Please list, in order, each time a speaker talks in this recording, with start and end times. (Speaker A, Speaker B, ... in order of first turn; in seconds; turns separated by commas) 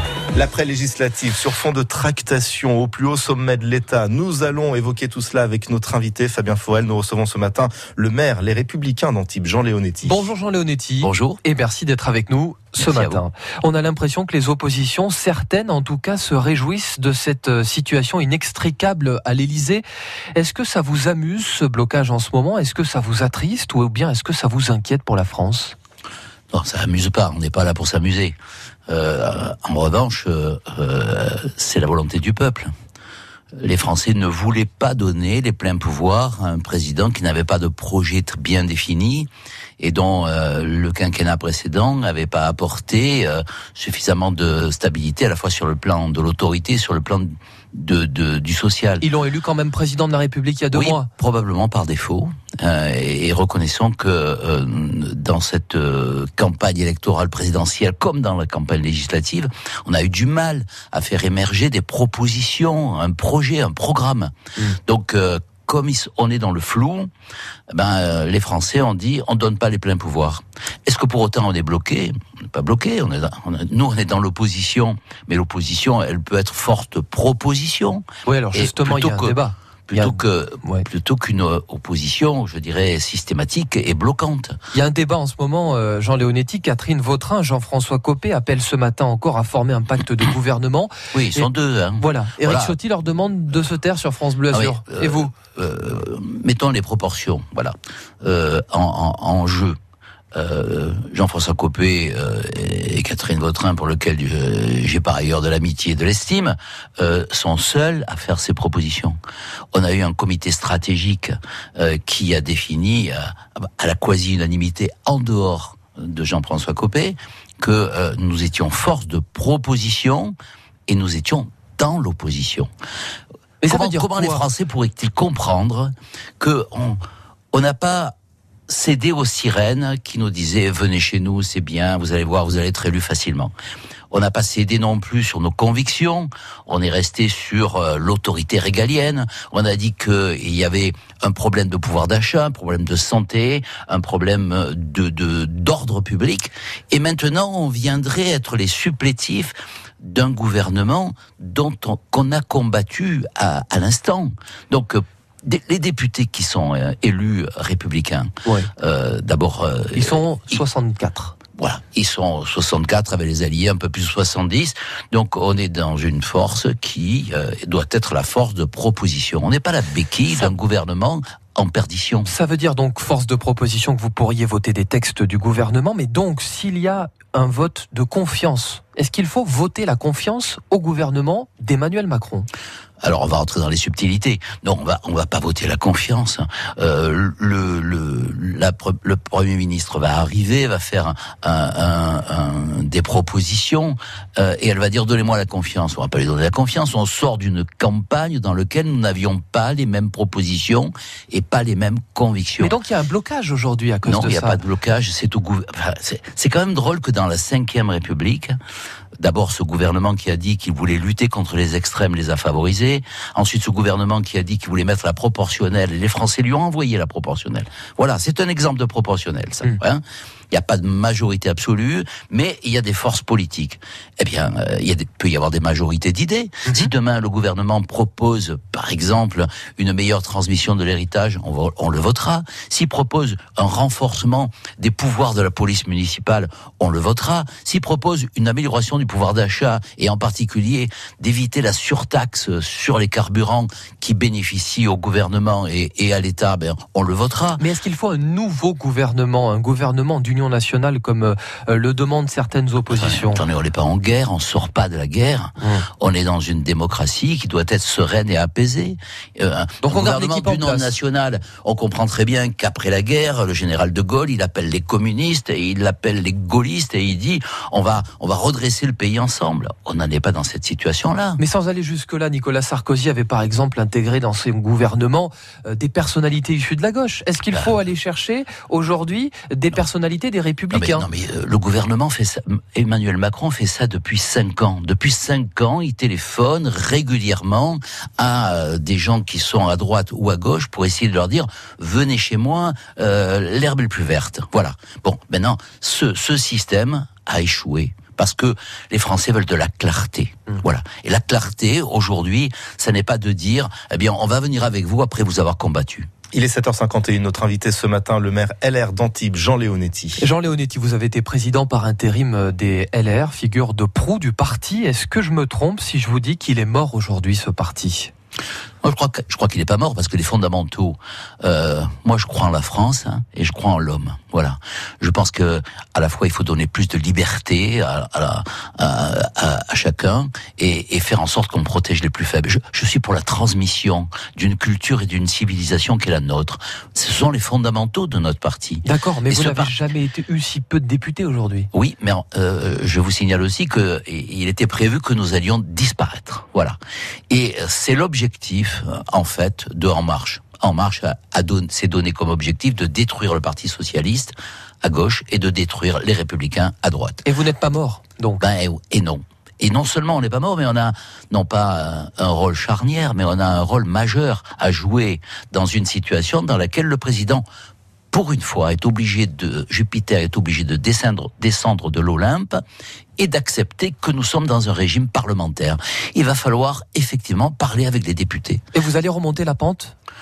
Speaker A: 0.3-10.3, Speaker B: 10.0-19.8, Speaker C: 11.0-11.4, Speaker C: 12.8-13.2, Speaker B: 20.3-25.8, Speaker C: 26.5-28.3, Speaker C: 28.9-32.7, Speaker C: 33.6-39.3, Speaker C: 39.8-49.0, Speaker B: 49.0-51.1, Speaker C: 50.7-67.1, Speaker C: 67.7-84.6, Speaker B: 78.2-80.9, Speaker B: 84.7-95.3, Speaker C: 91.1-92.8, Speaker C: 94.5-99.8, Speaker C: 100.3-109.2, Speaker C: 109.7-120.3, Speaker C: 120.9-122.7, Speaker B: 123.6-124.4, Speaker C: 123.7-127.0, Speaker C: 127.5-128.1, Speaker C: 128.7-133.5, Speaker C: 134.1-160.6, Speaker B: 158.4-158.7, Speaker B: 159.9-161.3, Speaker C: 161.6-172.3, Speaker B: 172.2-182.5, Speaker C: 183.0-202.8, Speaker B: 202.6-204.6, Speaker C: 204.0-208.6, Speaker C: 209.2-247.6, Speaker B: 247.6-253.4, Speaker C: 252.9-271.4, Speaker B: 255.6-255.9, Speaker B: 259.8-260.9, Speaker B: 271.4-281.1, Speaker C: 280.7-306.1, Speaker A: 306.3-310.2, Speaker B: 310.2-318.1, Speaker C: 318.8-339.7, Speaker B: 338.8-341.7, Speaker C: 341.7-346.8, Speaker C: 347.3-357.2, Speaker B: 357.2-358.4, Speaker C: 358.4-367.4, Speaker C: 368.1-372.6, Speaker C: 373.2-378.6, Speaker B: 378.7-379.9